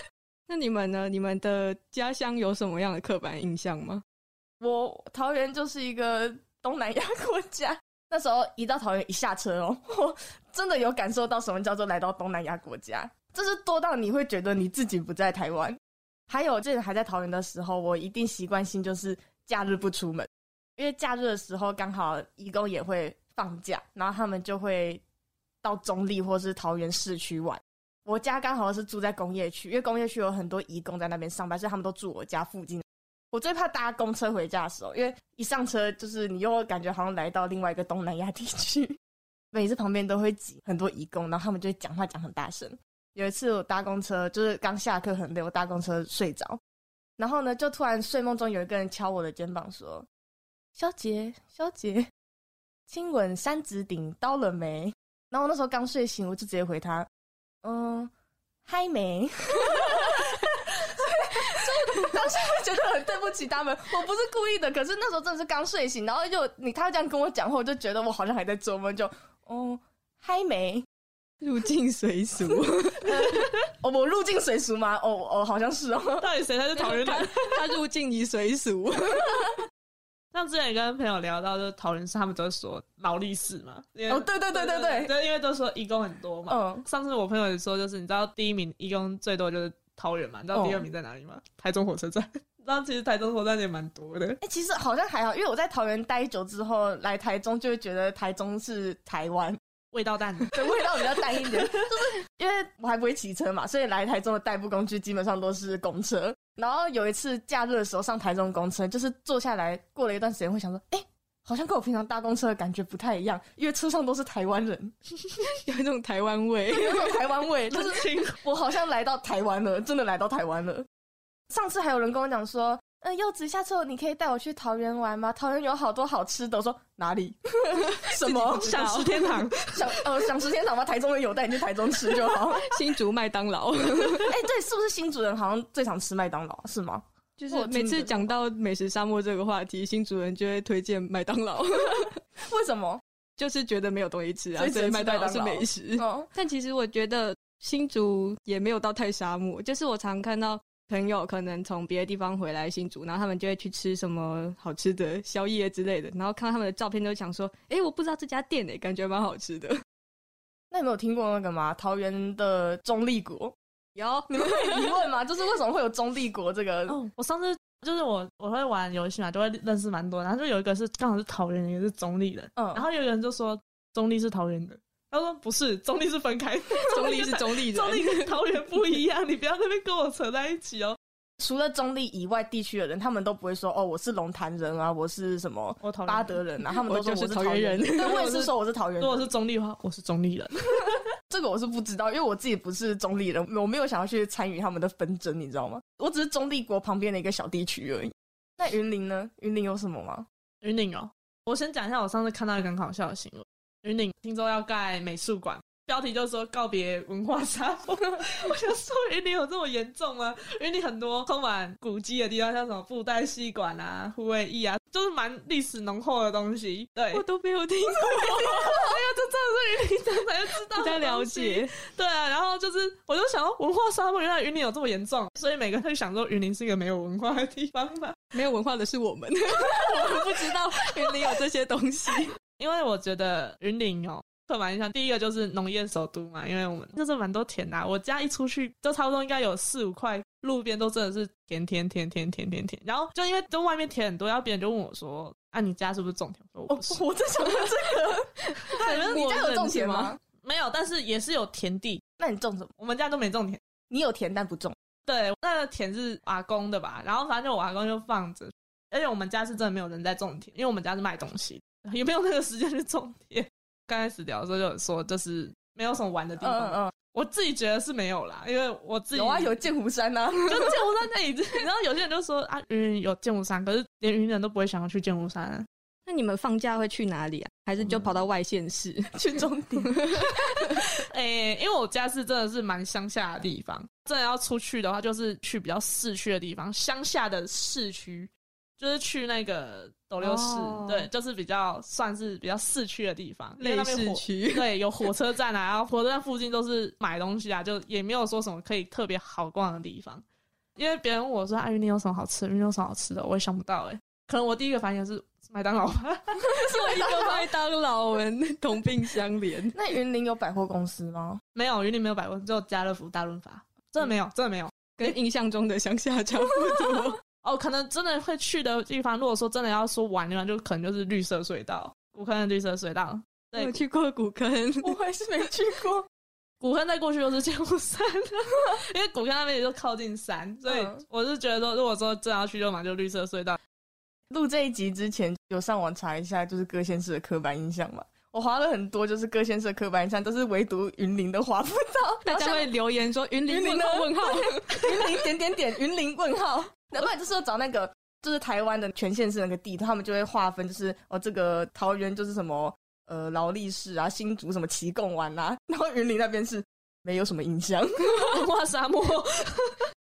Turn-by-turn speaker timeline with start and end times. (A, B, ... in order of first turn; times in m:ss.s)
0:00.5-0:04.0 A
0:04.6-0:25.0 B
0:25.6-0:39.0 B
0:39.5-0:46.6 B
0:47.2-0:50.1 B
0:50.8-0:52.1 B
0:52.9-0:57.1 B
0:57.6-0:58.1 B
0:58.6-1:10.8 B
1:11.4-1:13.3 A
1:13.0-1:16.3 B
1:16.2-1:17.7 C
1:16.7-1:19.6 A
1:20.3-1:34.4 C
1:24.1-1:25.1 B
1:26.5-1:26.8 B
1:30.5-1:30.9 B
1:34.4-1:39.6 B
1:39.9-1:41.8 C
1:40.5-1:54.9 B
1:55.4-1:57.1 A
1:56.7-2:00.8 B
1:57.7-1:58.4 C
2:01.5-2:08.8 B
2:08.0-2:09.4 A
2:08.6-2:09.8 C
2:09.7-2:12.6 B
2:12.6-2:14.3 A
2:14.2-2:18.2 B
2:17.4-2:22.2 A
2:22.4-2:23.0 B
2:23.4-2:39.8 A
2:24.6-2:26.3 B
2:40.7-2:43.5 B
2:43.9-2:44.9 A
2:44.3-2:47.0 B
2:46.9-3:01.0 C
2:52.6-2:52.8 B
2:56.7-2:58.4 A
3:01.4-3:09.3 B
3:05.8-3:06.4 C
3:06.8-3:08.2 A
3:08.0-3:11.0 C
3:11.3-3:20.3 B
3:20.6-3:37.2 C
3:37.1-3:38.9 A
3:38.0-3:48.2 C
3:40.7-3:41.7 A
3:48.3-3:52.3 A
3:49.9-3:50.4 C
3:52.6-4:07.0 C
4:06.7-4:10.2 B
4:08.7-4:10.2 A
4:08.8-4:09.4 C
4:09.9-4:12.0 C
4:12.2-4:12.7 B
4:12.8-4:13.6 C
4:13.9-4:14.7 B
4:15.1-4:29.6 C
4:26.4-4:26.9 B
4:29.1-4:30.8 B
4:30.4-4:35.7 C
4:36.0-4:39.1 A
4:37.8-4:38.1 C
4:39.1-4:40.0 B
4:41.0-5:00.2 C
4:50.2-4:51.1 A
4:53.6-4:54.7 A
5:00.8-5:06.7 C
5:06.6-5:09.7 A
5:06.9-5:07.4 B
5:09.7-5:11.4 B
5:11.5-5:15.1 C
5:15.0-5:17.2 A
5:17.4-5:23.8 C
5:23.6-5:24.9 A
5:24.8-5:26.0 B
5:26.6-5:33.6 C
5:30.6-5:31.0 B
5:34.3-5:42.7 B
5:42.2-5:45.0 A
5:43.5-5:58.1 B
5:58.3-5:59.8 C